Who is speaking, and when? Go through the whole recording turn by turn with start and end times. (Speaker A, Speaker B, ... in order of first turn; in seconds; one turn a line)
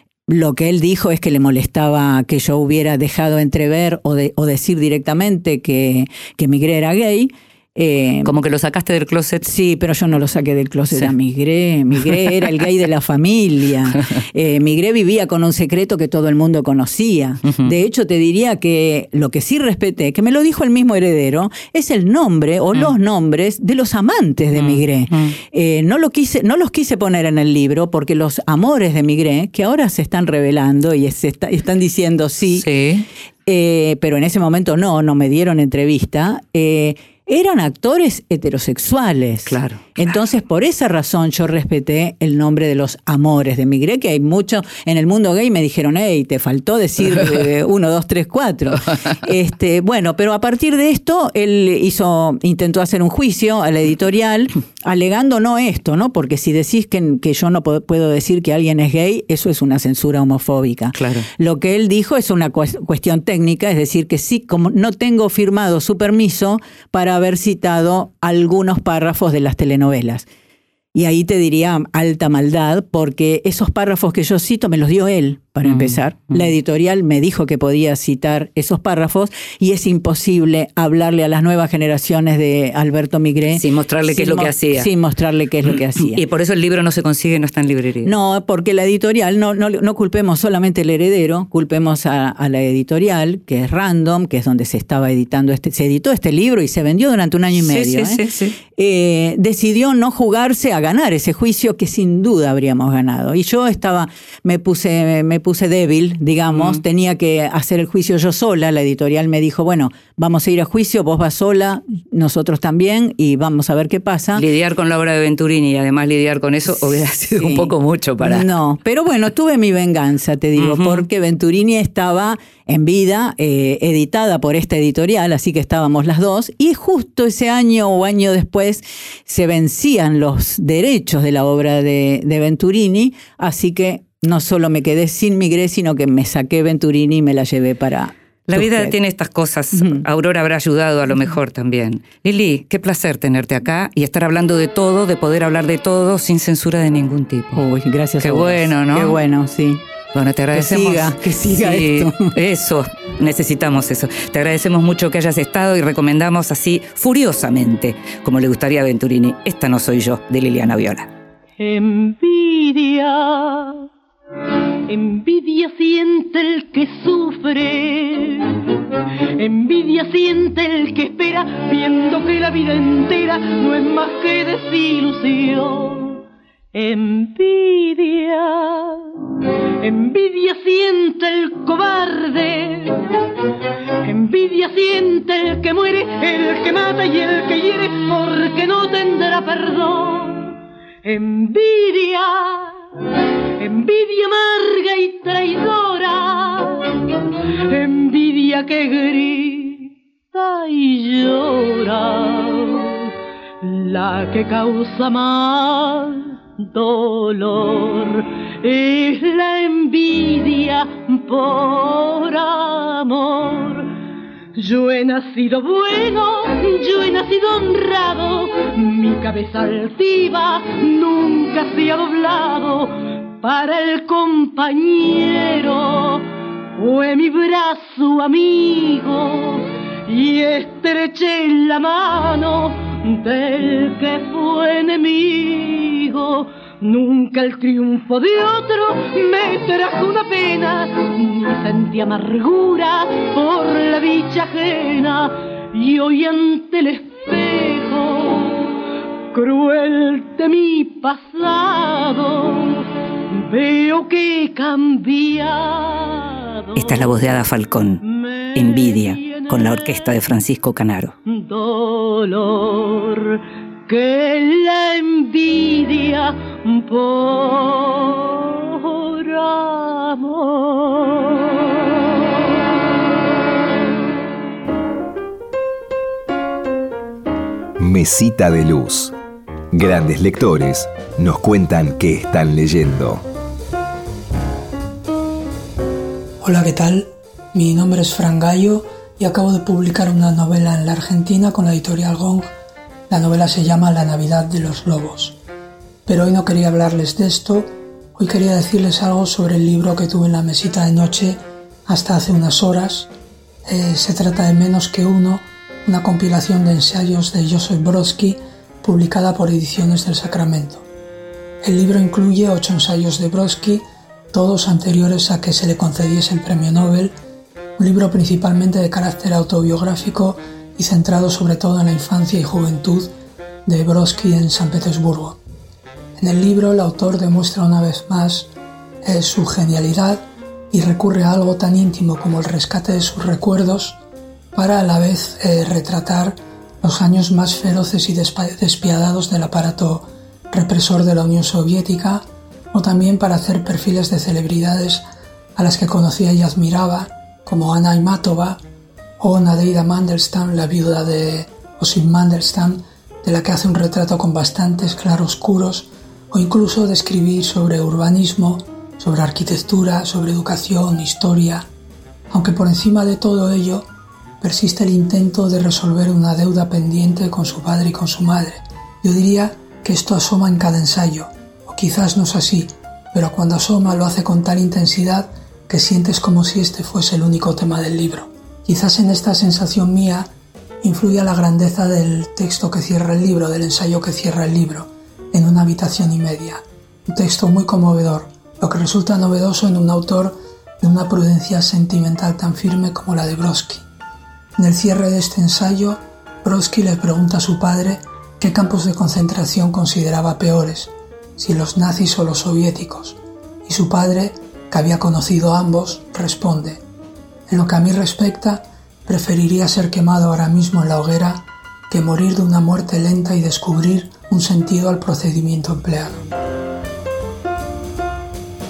Speaker A: 0.3-8.3
Speaker B: 8.2-9.5
Speaker A: 9.4-32.7
Speaker B: 17.4-17.7
Speaker B: 24.5-25.3
Speaker B: 32.5-33.1
Speaker A: 33.5-70.3
Speaker B: 39.5-40.2
Speaker B: 60.9-61.3
Speaker A: 70.9-86.2
Speaker B: 75.6-76.4
Speaker B: 83.5-84.9
Speaker B: 86.0-88.1
Speaker A: 88.0-114.4
Speaker B: 97.5-98.6
Speaker B: 106.5-106.8
Speaker B: 114.3-118.5
Speaker A: 117.3-139.0
Speaker B: 120.6-121.0
Speaker B: 138.5-147.6
Speaker A: 139.7-140.1
Speaker A: 147.5-149.8
Speaker B: 148.2-149.2
Speaker B: 150.1-161.1
Speaker A: 150.5-152.3
Speaker C: 161.6-163.9
Speaker C: 164.9-168.5
Speaker C: 169.4-176.2
Speaker C: 176.7-179.1
Speaker C: 179.8-183.0
Speaker C: 184.0-192.7
Speaker C: 193.6-197.0
Speaker C: 197.7-203.1
Speaker C: 203.6-213.9
Speaker C: 214.6-248.6
Speaker C: 249.3-257.2
Speaker B: 256.8-258.0
Speaker C: 258.1-259.9
Speaker B: 258.5-261.1
Speaker C: 261.3-271.5
Speaker D: 277.8-279.1
Speaker D: 279.7-283.2
Speaker E: 286.4-292.5
Speaker E: 293.1-295.4
Speaker E: 296.1-303.1
Speaker E: 303.6-310.8
Speaker E: 311.6-317.1
Speaker E: 317.8-323.1
Speaker E: 323.6-325.4
Speaker E: 326.2-328.5
Speaker E: 329.0-334.0
Speaker E: 334.5-345.0
Speaker E: 345.6-348.6
Speaker E: 349.2-361.6
Speaker E: 362.3-363.9
Speaker E: 364.4-380.3
Speaker E: 380.8-393.8
Speaker E: 394.6-406.8
Speaker E: 407.5-416.2